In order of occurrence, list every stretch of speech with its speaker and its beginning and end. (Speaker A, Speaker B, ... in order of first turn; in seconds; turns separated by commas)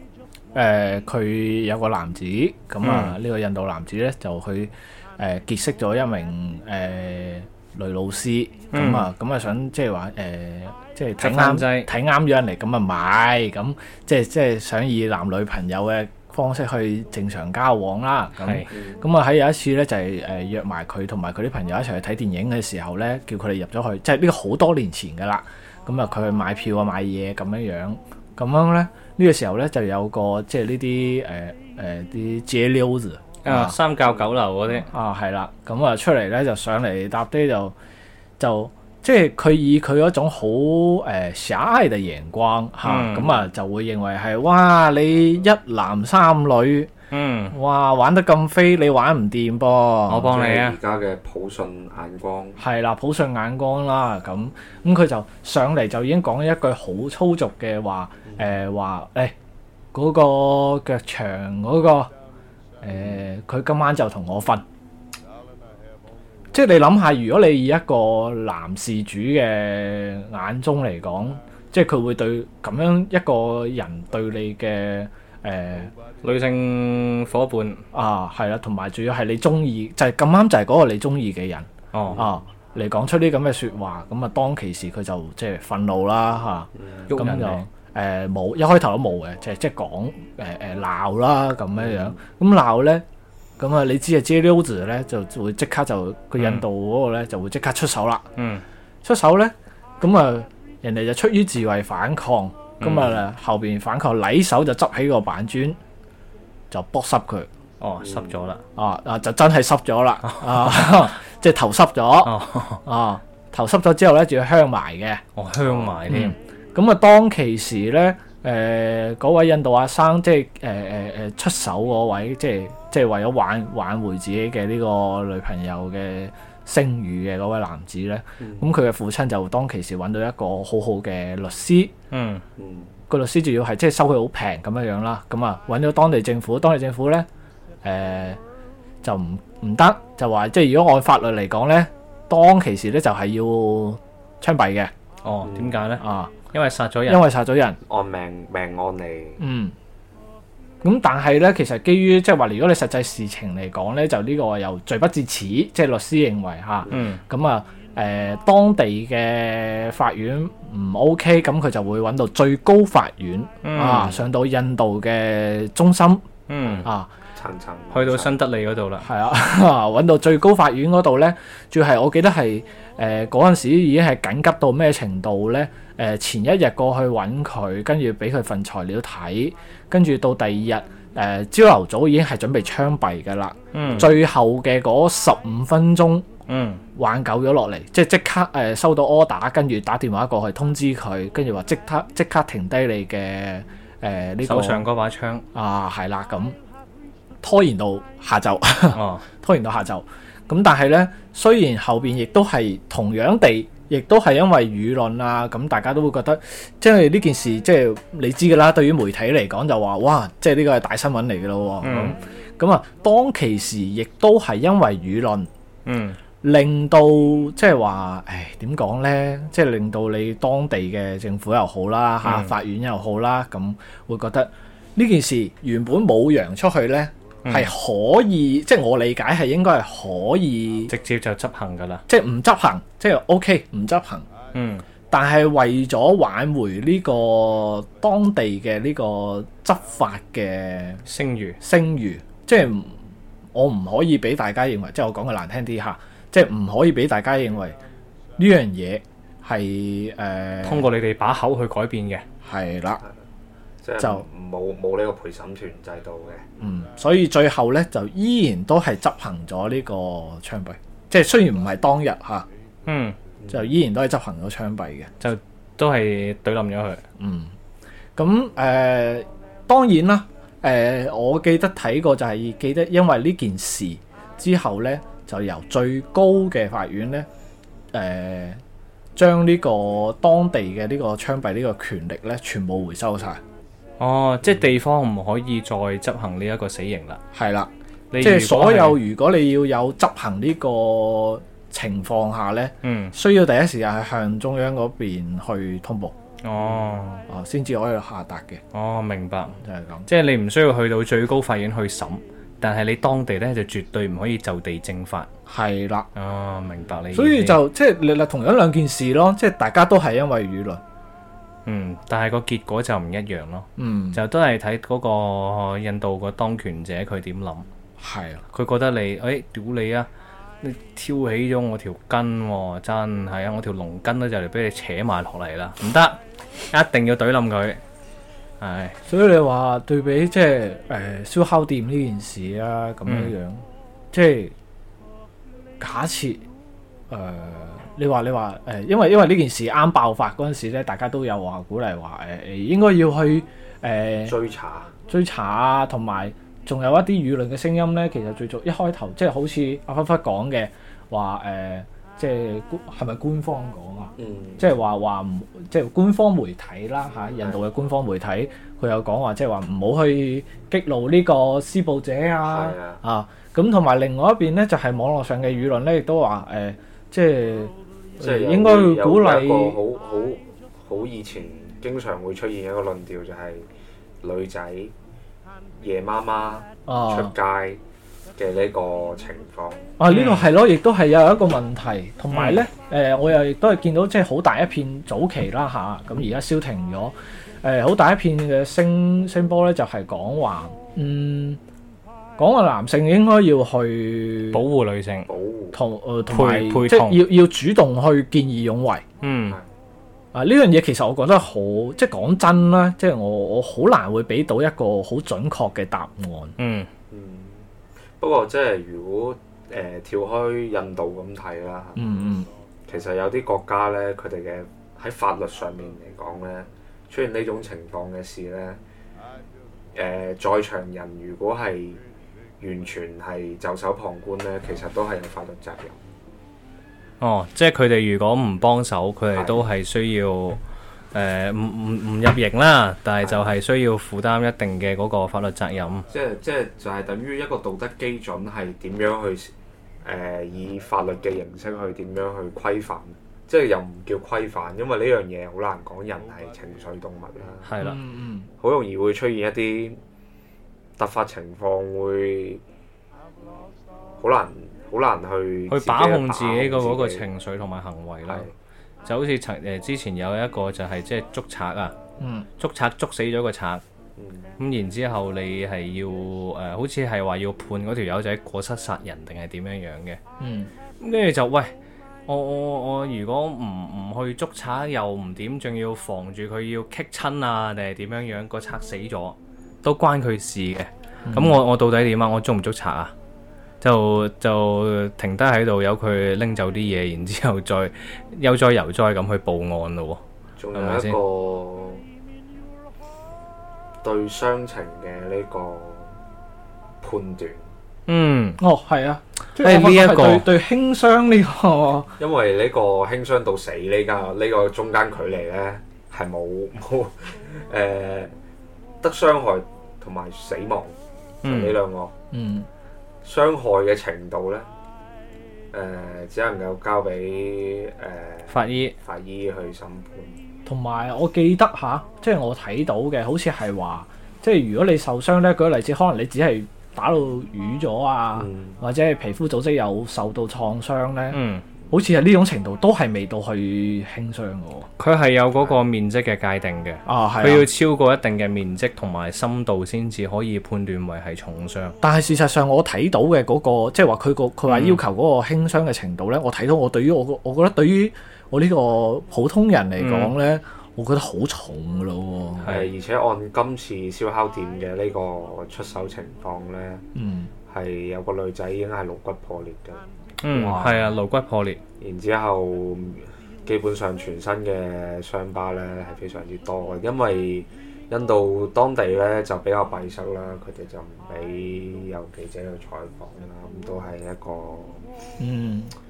Speaker A: 0.5-33.8, Speaker B: 2.8-3.2, Speaker B: 8.7-9.1, Speaker B: 11.2-11.9, Speaker B: 18.4-18.7, Speaker C: 18.7-19.0, Speaker B: 33.4-34.9, Speaker A: 34.8-37.8, Speaker A: 38.4-46.9, Speaker B: 42.8-43.4, Speaker B: 47.1-47.6, Speaker A: 47.5-50.3, Speaker B: 50.1-50.8, Speaker C: 50.1-52.6, Speaker A: 52.6-59.4, Speaker A: 59.9-62.1, Speaker A: 62.8-64.6, Speaker C: 62.9-63.2, Speaker A: 66.5-75.9, Speaker B: 76.2-77.8, Speaker A: 77.9-93.0, Speaker B: 81.9-82.2, Speaker C: 82.0-82.4, Speaker C: 86.8-87.1, Speaker B: 87.1-87.6, Speaker C: 91.8-92.2, Speaker A: 93.6-98.3, Speaker B: 96.4-96.7, Speaker B: 98.4-98.6, Speaker A: 99.0-105.8, Speaker B: 102.8-103.2, Speaker A: 106.7-107.5, Speaker B: 107.8-108.7, Speaker C: 108.0-108.3, Speaker A: 108.8-115.2, Speaker B: 110.3-110.9, Speaker B: 112.2-112.8, Speaker B: 115.3-116.3, Speaker C: 115.6-116.0, Speaker A: 116.1-131.9, Speaker C: 128.4-128.7, Speaker B: 132.1-132.4, Speaker C: 132.6-133.0, Speaker A: 133.1-137.3, Speaker A: 137.8-138.4, Speaker A: 139.0-144.9, Speaker B: 145.2-147.3, Speaker C: 145.4-145.8, Speaker A: 146.0-146.3, Speaker A: 147.1-147.8, Speaker C: 147.9-149.4, Speaker A: 149.4-149.7, Speaker A: 150.8-166.2, Speaker B: 156.9-157.2, Speaker B: 163.6-164.2, Speaker B: 166.5-166.9, Speaker A: 166.8-167.1, Speaker C: 167.3-168.3, Speaker B: 167.9-169.1, Speaker A: 169.0-186.3, Speaker B: 183.7-184.2, Speaker B: 186.5-186.8, Speaker A: 186.9-194.9, Speaker B: 194.4-195.4, Speaker A: 195.5-196.6, Speaker A: 197.4-215.5, Speaker B: 198.9-199.3, Speaker B: 211.8-212.2, Speaker B: 215.9-216.2, Speaker A: 216.4-230.9, Speaker B: 222.2-222.5, Speaker B: 227.4-227.7, Speaker B: 230.9-232.1, Speaker A: 232.1-234.3, Speaker B: 234.5-234.8, Speaker A: 235.1-241.0, Speaker B: 241.1-241.6, Speaker A: 241.6-243.0, Speaker A: 243.5-247.8, Speaker A: 248.4-250.9, Speaker B: 250.6-252.2, Speaker A: 252.4-253.0, Speaker C: 253.8-256.5, Speaker A: 254.0-254.2, Speaker A: 256.6-262.5, Speaker B: 262.9-263.2, Speaker C: 263.4-263.7, Speaker A: 263.5-265.1, Speaker B: 265.2-267.0, Speaker A: 267.2-267.5, Speaker A: 268.2-277.3, Speaker A: 277.9-278.6, Speaker A: 279.1-283.4, Speaker B: 284.0-287.2, Speaker A: 287.3-296.1, Speaker B: 288.1-289.0, Speaker B: 292.8-293.1, Speaker B: 296.4-297.3, Speaker A: 297.3-298.6, Speaker B: 298.7-305.3, Speaker A: 299.6-300.1, Speaker A: 305.5-306.1, Speaker B: 306.1-307.6, Speaker A: 307.1-310.8, Speaker B: 311.7-317.7, Speaker A: 313.8-314.2, Speaker A: 318.0-318.4, Speaker B: 318.5-320.1, Speaker B: 320.6-327.8, Speaker B: 328.6-329.0, Speaker A: 329.1-334.5, Speaker B: 333.1-333.3, Speaker A: 335.8-336.4, Speaker A: 337.1-344.4, Speaker C: 344.2-344.9, Speaker A: 345.1-369.8, Speaker C: 354.2-354.7, Speaker C: 362.4-363.0, Speaker C: 368.2-373.7, Speaker C: 374.2-374.9, Speaker C: 375.8-377.8, Speaker A: 376.9-377.3, Speaker C: 378.4-379.9, Speaker A: 380.0-391.6, Speaker B: 380.1-380.5, Speaker B: 382.3-382.6, Speaker A: 392.4-394.6, Speaker B: 394.5-395.3, Speaker C: 395.3-395.8, Speaker A: 395.7-399.0, Speaker B: 396.3-397.2, Speaker B: 399.2-399.6, Speaker A: 400.3-406.6, Speaker B: 406.6-406.9, Speaker C: 407.1-407.7, Speaker C: 408.2-412.0, Speaker A: 412.0-412.5, Speaker C: 412.9-418.8, Speaker C: 419.9-422.0, Speaker C: 422.6-426.0, Speaker B: 427.2-430.6, Speaker C: 429.3-429.6, Speaker B: 431.1-436.1, Speaker C: 433.2-433.6, Speaker C: 436.1-447.7, Speaker B: 447.6-448.0, Speaker A: 447.8-448.5, Speaker C: 448.6-450.0, Speaker C: 451.0-452.6, Speaker C: 454.2-457.3, Speaker B: 455.7-458.5, Speaker C: 458.3-458.5, Speaker B: 459.1-462.0, Speaker A: 462.2-462.5, Speaker B: 462.6-463.8, Speaker C: 464.2-464.5, Speaker B: 464.6-470.2, Speaker A: 470.4-470.7, Speaker B: 471.0-471.8, Speaker B: 472.3-483.1, Speaker A: 481.3-481.6, Speaker B: 483.8-490.2, Speaker C: 490.6-492.1, Speaker B: 490.7-491.2, Speaker C: 494.0-496.2, Speaker C: 497.0-497.7, Speaker B: 498.1-498.6, Speaker A: 498.6-502.1, Speaker B: 499.6-500.5, Speaker C: 502.2-508.3, Speaker C: 509.0-512.1, Speaker B: 511.4-511.8, Speaker A: 512.3-512.7, Speaker C: 513.2-514.7, Speaker C: 515.7-520.4, Speaker B: 518.5-519.0, Speaker A: 520.6-534.9, Speaker C: 528.4-528.8, Speaker B: 531.3-531.7, Speaker B: 535.0-542.0, Speaker A: 537.0-537.7, Speaker A: 542.0-552.8, Speaker B: 544.7-545.0, Speaker B: 550.0-550.4, Speaker B: 552.6-552.9, Speaker C: 552.6-557.1, Speaker A: 557.1-557.5, Speaker C: 557.7-560.0, Speaker B: 560.4-561.8, Speaker A: 560.5-561.1, Speaker C: 562.0-575.1, Speaker A: 575.4-575.9